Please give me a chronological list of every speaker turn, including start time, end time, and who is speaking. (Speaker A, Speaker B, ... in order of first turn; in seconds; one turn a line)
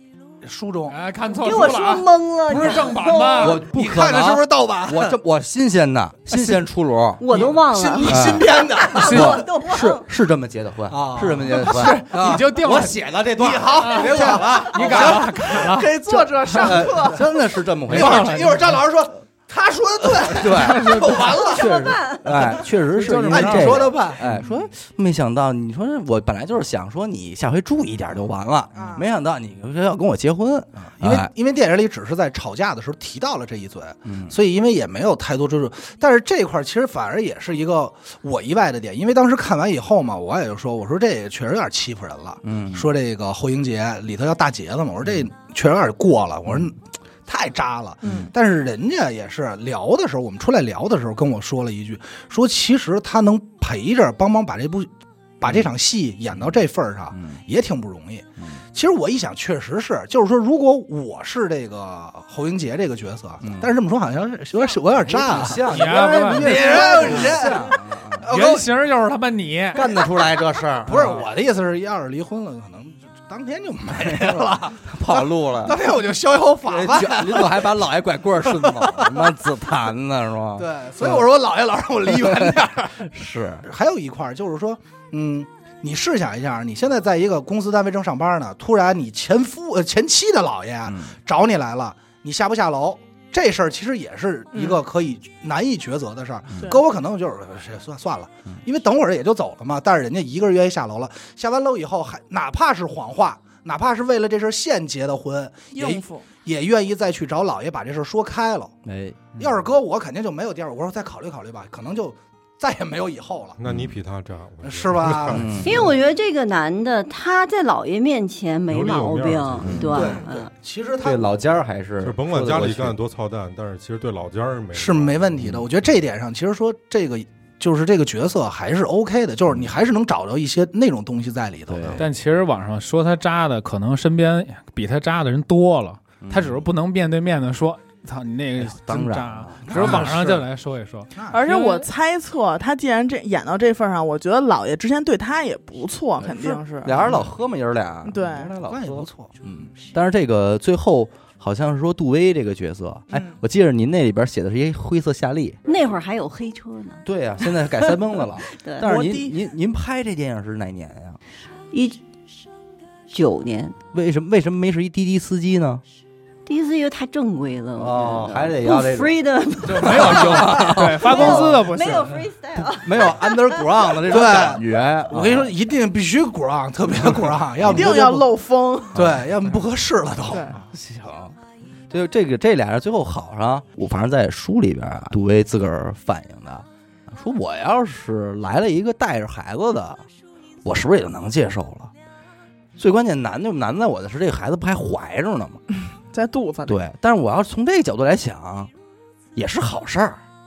Speaker A: 0.4-1.0
Speaker B: 0.9-3.6
Speaker C: 1.4-3.6
Speaker D: 3.4-7.5
Speaker A: 3.6-5.2
Speaker C: 7.2-10.1
Speaker A: 7.3-9.5
Speaker D: 8.1-15.2
Speaker B: 9.0-9.4
Speaker A: 10.9-15.8
Speaker B: 11.5-13.1
Speaker B: 13.7-16.9
Speaker E: 14.9-17.2
Speaker D: 16.6-18.6
Speaker A: 17.9-22.1
Speaker B: 17.9-18.7
Speaker D: 20.1-31.3
Speaker C: 21.4-22.3
Speaker B: 23.0-23.9
Speaker A: 23.2-24.3
Speaker A: 28.8-29.0
Speaker E: 28.8-29.0
Speaker A: 30.8-68.7
Speaker D: 34.0-34.4
Speaker D: 42.5-42.9
Speaker D: 57.1-57.4
Speaker D: 63.4-63.7
Speaker D: 65.0-68.3
Speaker B: 65.7-67.4
Speaker B: 68.3-69.8
Speaker D: 69.7-71.3
Speaker A: 69.8-70.1
Speaker A: 70.9-77.8
Speaker D: 74.1-75.8
Speaker D: 76.7-81.2
Speaker A: 78.5-79.3
Speaker A: 80.6-83.1
Speaker D: 82.2-83.7
Speaker A: 83.7-108.8
Speaker D: 90.9-91.1
Speaker E: 94.5-94.8
Speaker E: 105.7-106.3
Speaker D: 108.8-109.3
Speaker A: 109.4-113.6
Speaker F: 113.6-115.8
Speaker A: 114.6-115.6
Speaker D: 115.3-115.9
Speaker C: 115.6-120.5
Speaker F: 118.7-120.0
Speaker D: 119.6-120.2
Speaker A: 119.9-121.3
Speaker D: 121.0-123.0
Speaker F: 122.0-125.5
Speaker A: 124.7-132.0
Speaker D: 125.4-125.6
Speaker D: 131.7-132.1
Speaker B: 132.0-141.9
Speaker D: 136.2-136.7
Speaker D: 138.6-140.1
Speaker A: 139.7-140.4
Speaker A: 141.2-141.5
Speaker E: 141.3-147.2
Speaker D: 146.2-155.6
Speaker E: 148.0-148.5
Speaker A: 148.7-149.3
Speaker E: 153.1-153.4
Speaker C: 155.7-158.9
Speaker D: 157.1-161.2
Speaker E: 158.8-159.3
Speaker C: 161.7-162.0
Speaker C: 163.1-163.8
Speaker D: 163.9-165.8
Speaker C: 166.5-174.0
Speaker D: 167.8-169.1
Speaker D: 169.7-172.0
Speaker B: 169.7-172.2
Speaker D: 172.6-175.5
Speaker A: 174.1-178.3
Speaker D: 177.6-178.0
Speaker E: 177.7-179.0
Speaker D: 178.9-179.2
Speaker A: 178.9-180.6
Speaker E: 180.3-180.6
Speaker D: 180.7-181.3
Speaker D: 181.9-190.0
Speaker D: 190.6-191.9
Speaker D: 192.8-195.6
Speaker E: 196.1-196.8
Speaker D: 196.7-198.7
Speaker D: 199.3-200.2